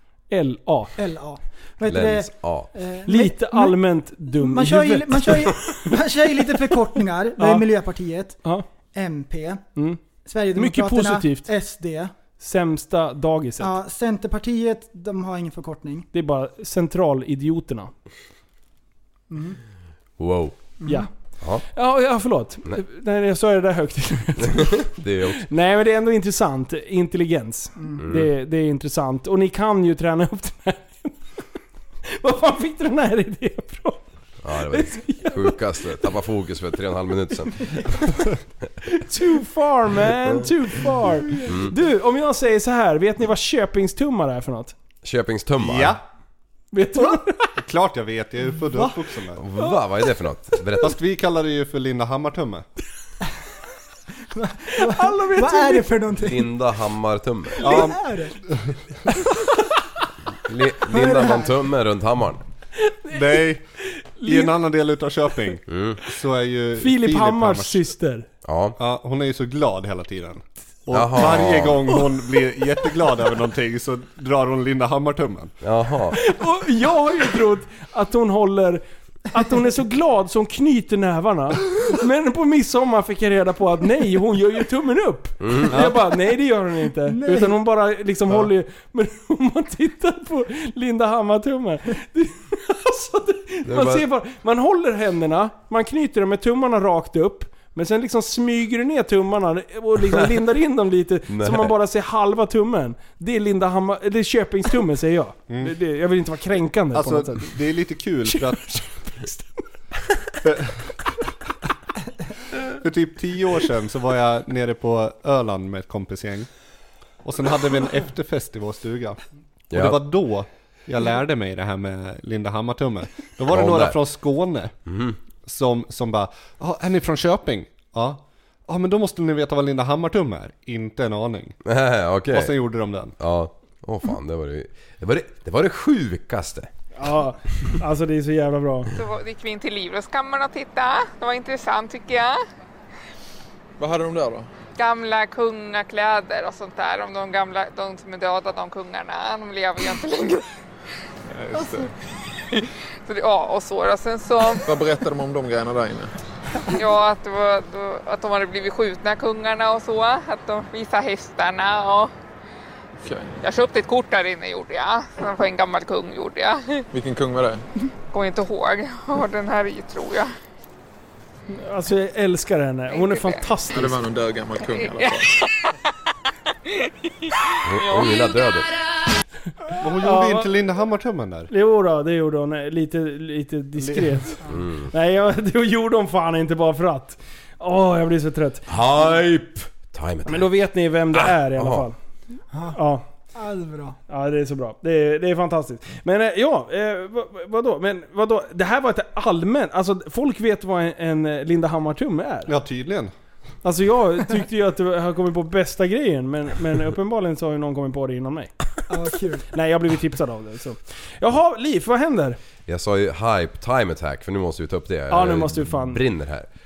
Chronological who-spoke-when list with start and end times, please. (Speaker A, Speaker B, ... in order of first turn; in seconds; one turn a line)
Speaker A: 0.3-0.9
Speaker B: 1.0-3.8
Speaker C: 1.9-2.7
Speaker A: 3.1-6.7
Speaker B: 4.4-8.4
Speaker A: 7.4-7.7
Speaker B: 8.9-9.6
Speaker B: 10.2-12.1
Speaker A: 10.6-11.5
Speaker A: 12.4-13.8
Speaker B: 13.6-16.1
Speaker A: 16.1-17.9
Speaker B: 19.3-19.6
Speaker C: 20.2-20.6
Speaker B: 20.8-21.1
Speaker A: 20.9-21.1
Speaker A: 21.6-31.4
Speaker C: 24.5-25.4
Speaker C: 28.0-28.3
Speaker A: 32.2-35.6
Speaker C: 34.4-38.0
Speaker A: 39.1-44.7
Speaker C: 41.5-41.7
Speaker C: 45.0-46.0
Speaker D: 45.6-46.0
Speaker A: 46.7-47.5
Speaker D: 47.6-49.4
Speaker B: 48.7-49.0
Speaker C: 49.4-51.0
Speaker D: 50.8-52.6
Speaker B: 54.4-56.5
Speaker A: 54.8-55.9
Speaker C: 56.2-57.6
Speaker D: 57.6-58.8
Speaker B: 57.6-58.4
Speaker C: 60.5-62.4
Speaker B: 60.9-61.5
Speaker A: 62.9-63.4
Speaker D: 63.1-63.6
Speaker A: 63.9-64.5
Speaker D: 64.2-67.9
Speaker C: 65.7-66.0
Speaker A: 66.8-68.3
Speaker C: 68.4-68.8
Speaker D: 68.8-75.6
Speaker C: 70.9-71.8
Speaker C: 75.6-76.2
Speaker A: 76.2-107.6
Speaker C: 85.4-85.9
Speaker B: 87.1-87.6
Speaker C: 93.7-94.1
Speaker C: 101.3-101.8
Speaker D: 105.5-105.8
Speaker D: 106.9-108.6
Speaker A: 108.2-109.7
Speaker D: 112.8-116.5
Speaker D: 117.2-119.2
Speaker C: 119.7-120.0
Speaker D: 119.7-124.7
Speaker C: 123.5-124.0
Speaker C: 124.9-125.2
Speaker D: 125.4-131.6
Speaker C: 131.7-132.5
Speaker D: 132.3-133.2
Speaker C: 133.2-136.7
Speaker A: 137.0-138.9
Speaker E: 138.9-142.4
Speaker F: 143.8-144.5
Speaker E: 144.8-150.4
Speaker F: 151.3-151.9
Speaker E: 152.6-154.6
Speaker F: 154.7-156.1
Speaker E: 156.7-162.1
Speaker F: 163.0-163.4
Speaker E: 163.4-166.8
Speaker F: 166.9-167.7
Speaker E: 168.1-170.3
Speaker A: 171.5-174.0
Speaker E: 172.9-173.4
Speaker F: 173.7-175.3
Speaker C: 177.7-178.7
Speaker D: 179.8-181.5
Speaker A: 180.0-180.5
Speaker A: 181.5-188.7
Speaker D: 183.8-184.2
Speaker C: 184.5-184.9
Speaker C: 188.7-190.5
Speaker A: 190.3-192.0
Speaker C: 191.2-191.9
Speaker A: 192.8-193.1
Speaker B: 193.3-194.0
Speaker A: 194.1-202.5
Speaker D: 202.5-203.1
Speaker A: 203.6-208.6
Speaker B: 208.9-209.5
Speaker A: 209.5-212.4
Speaker C: 212.7-216.5
Speaker A: 215.1-216.0